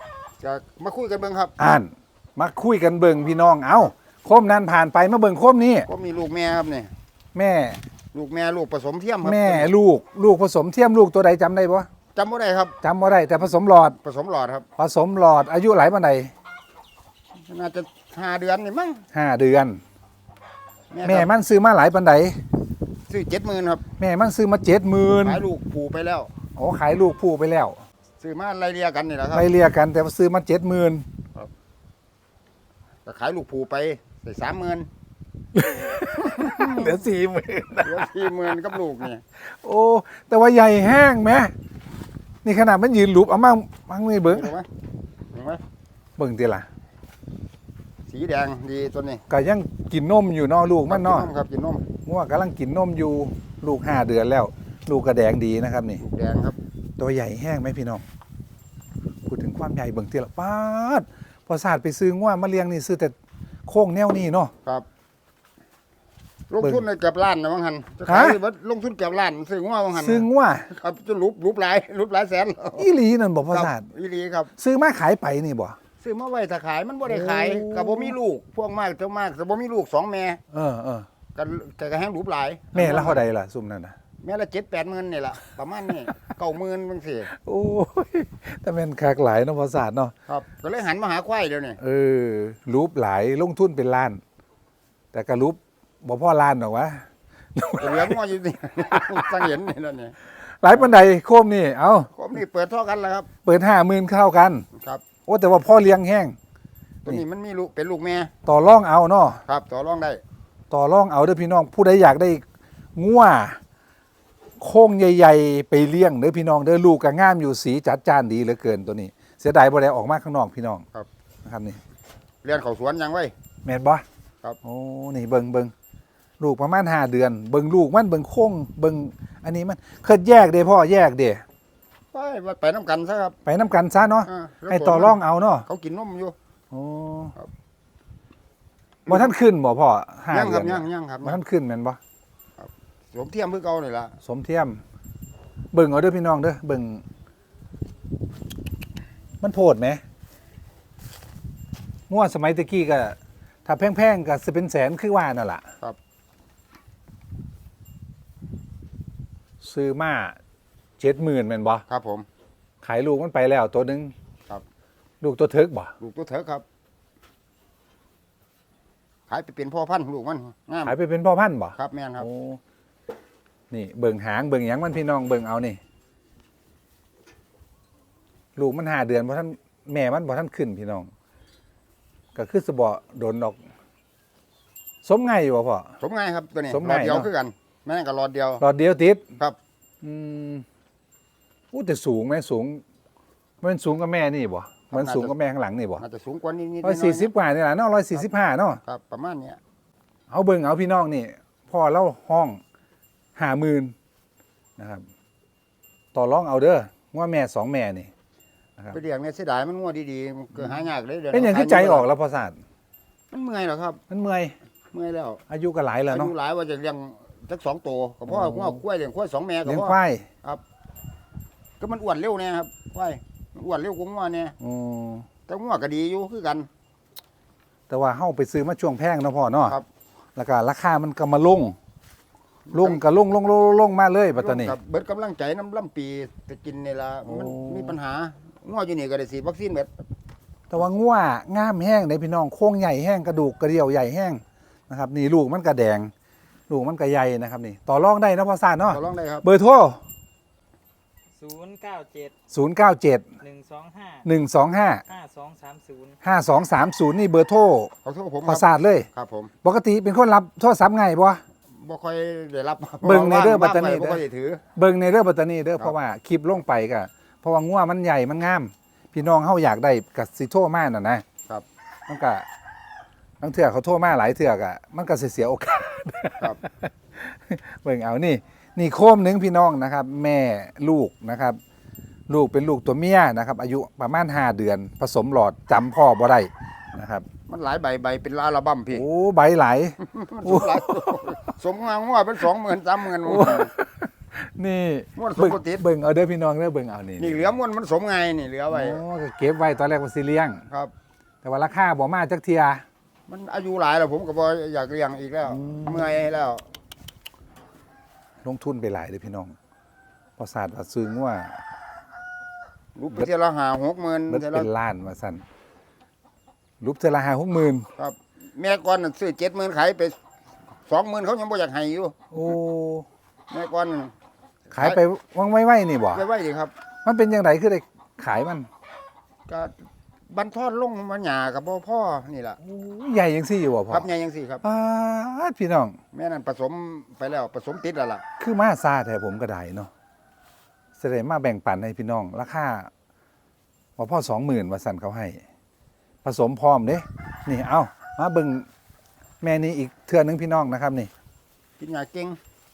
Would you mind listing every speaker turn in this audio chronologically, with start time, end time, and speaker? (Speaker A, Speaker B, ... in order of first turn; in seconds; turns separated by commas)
Speaker A: 0.4-1.5, Speaker B: 1.6-5.9, Speaker A: 5.9-6.9, Speaker B: 7.3-7.8, Speaker A: 8.1-9.7, Speaker B: 9.2-11.9, Speaker A: 12.1-12.8, Speaker B: 12.8-14.0, Speaker A: 14.0-14.7, Speaker B: 14.8-16.3, Speaker A: 17.4-19.0, Speaker B: 19.1-19.8, Speaker A: 20.9-21.3, Speaker B: 21.0-22.4, Speaker A: 23.1-23.9, Speaker B: 24.0-25.4, Speaker A: 25.2-26.3, Speaker B: 26.6-27.8, Speaker A: 28.2-29.5, Speaker B: 29.3-31.1, Speaker A: 33.0-34.9, Speaker B: 35.5-38.5, Speaker A: 36.2-37.0, Speaker A: 37.8-39.2, Speaker B: 39.4-41.5, Speaker B: 42.4-44.5, Speaker A: 44.3-44.7, Speaker A: 45.3-45.6, Speaker B: 46.2-46.7, Speaker A: 48.1-49.2, Speaker B: 49.3-51.3, Speaker A: 50.9-51.9, Speaker B: 52.0-56.0, Speaker A: 56.0-56.6, Speaker B: 57.0-58.0, Speaker B: 59.2-63.1, Speaker B: 63.7-64.5, Speaker A: 66.5-72.9, Speaker B: 68.0-68.4, Speaker B: 69.9-70.7, Speaker B: 72.8-73.9, Speaker A: 73.5-74.5, Speaker B: 74.5-75.8, Speaker A: 76.0-80.4, Speaker B: 77.1-78.2, Speaker B: 80.5-81.1, Speaker A: 81.3-83.2, Speaker B: 82.7-83.9, Speaker A: 84.2-87.3, Speaker B: 87.3-90.1, Speaker A: 90.3-91.8, Speaker B: 91.8-94.2, Speaker B: 95.1-98.2, Speaker A: 97.8-100.1, Speaker B: 98.9-99.4, Speaker B: 100.3-102.1, Speaker A: 102.1-103.3, Speaker B: 103.4-104.7, Speaker A: 104.7-105.0, Speaker B: 105.2-106.4, Speaker A: 107.0-108.3, Speaker B: 108.4-109.4, Speaker A: 109.5-110.2, Speaker B: 110.7-112.4, Speaker B: 113.0-113.6, Speaker B: 114.6-120.8, Speaker B: 121.4-121.8, Speaker A: 122.4-123.3, Speaker B: 123.6-124.0, Speaker B: 124.6-125.7, Speaker B: 126.4-131.4, Speaker A: 132.1-133.3, Speaker B: 133.4-135.7, Speaker A: 134.2-136.3, Speaker B: 136.7-137.3, Speaker A: 139.1-139.3, Speaker B: 139.1-142.0, Speaker A: 140.3-141.4, Speaker A: 142.6-144.2, Speaker B: 144.2-144.8, Speaker B: 145.7-147.0, Speaker B: 149.4-150.0, Speaker B: 152.1-155.7, Speaker B: 159.6-160.4, Speaker B: 161.0-161.8, Speaker A: 161.9-162.3, Speaker B: 162.8-164.1, Speaker B: 165.2-165.9, Speaker A: 166.0-166.6, Speaker A: 169.3-170.9, Speaker B: 170.8-172.6, Speaker A: 171.8-172.2, Speaker B: 173.7-175.8, Speaker B: 178.6-181.1, Speaker B: 182.3-183.6, Speaker B: 185.0-185.9, Speaker A: 186.0-188.6, Speaker B: 186.7-187.3, Speaker B: 188.6-189.2, Speaker B: 190.0-190.6, Speaker B: 191.7-192.8, Speaker B: 193.6-196.0, Speaker A: 194.9-195.3, Speaker A: 196.0-197.3, Speaker B: 196.8-198.8, Speaker A: 198.8-199.6, Speaker B: 200.3-202.6, Speaker B: 203.3-203.9, Speaker B: 204.8-205.1, Speaker B: 206.1-208.1, Speaker A: 208.9-212.1, Speaker B: 211.3-212.6, Speaker A: 213.3-214.0, Speaker B: 214.1-214.5, Speaker A: 214.9-215.4, Speaker B: 215.5-216.3, Speaker A: 216.1-220.6, Speaker B: 218.3-218.8, Speaker B: 219.7-220.3, Speaker A: 221.8-224.6, Speaker B: 224.6-225.3, Speaker A: 225.5-226.7, Speaker B: 227.9-229.8, Speaker B: 230.3-231.8, Speaker A: 232.7-233.0, Speaker B: 232.7-234.8, Speaker A: 234.3-239.9, Speaker B: 237.2-237.9, Speaker B: 240.7-246.1, Speaker B: 246.7-250.0, Speaker A: 248.9-249.4, Speaker C: 251.4-252.3, Speaker B: 252.5-253.2, Speaker C: 253.4-254.2, Speaker B: 254.2-255.0, Speaker C: 255.1-256.2, Speaker B: 256.2-257.9, Speaker A: 258.0-259.5, Speaker B: 258.4-259.1, Speaker B: 259.6-261.4, Speaker A: 261.7-264.6, Speaker B: 263.0-264.2, Speaker B: 264.7-271.2, Speaker B: 272.1-272.4, Speaker B: 273.4-281.6, Speaker B: 282.3-287.2, Speaker A: 287.5-289.0, Speaker B: 288.9-291.2, Speaker A: 290.0-293.7, Speaker B: 293.2-297.5, Speaker A: 295.2-295.8, Speaker A: 297.2-299.0, Speaker B: 298.7-300.6, Speaker B: 301.4-302.8, Speaker A: 303.3-306.6, Speaker B: 305.5-306.1, Speaker B: 308.4-309.5, Speaker B: 310.4-311.6, Speaker A: 312.9-314.7, Speaker B: 314.3-315.4, Speaker B: 316.8-317.9, Speaker A: 318.0-320.1, Speaker A: 320.9-322.1, Speaker B: 322.3-323.1, Speaker A: 323.5-324.1, Speaker B: 324.7-326.2, Speaker A: 324.7-325.0, Speaker A: 326.1-326.7, Speaker B: 327.0-328.7, Speaker A: 329.5-329.7, Speaker A: 330.3-332.6, Speaker B: 332.6-334.1, Speaker A: 333.9-334.6, Speaker B: 334.6-336.0, Speaker A: 336.1-338.2, Speaker B: 338.4-339.9, Speaker B: 341.0-342.9, Speaker B: 344.0-345.4, Speaker B: 346.2-348.7, Speaker B: 349.4-351.1, Speaker A: 351.8-352.4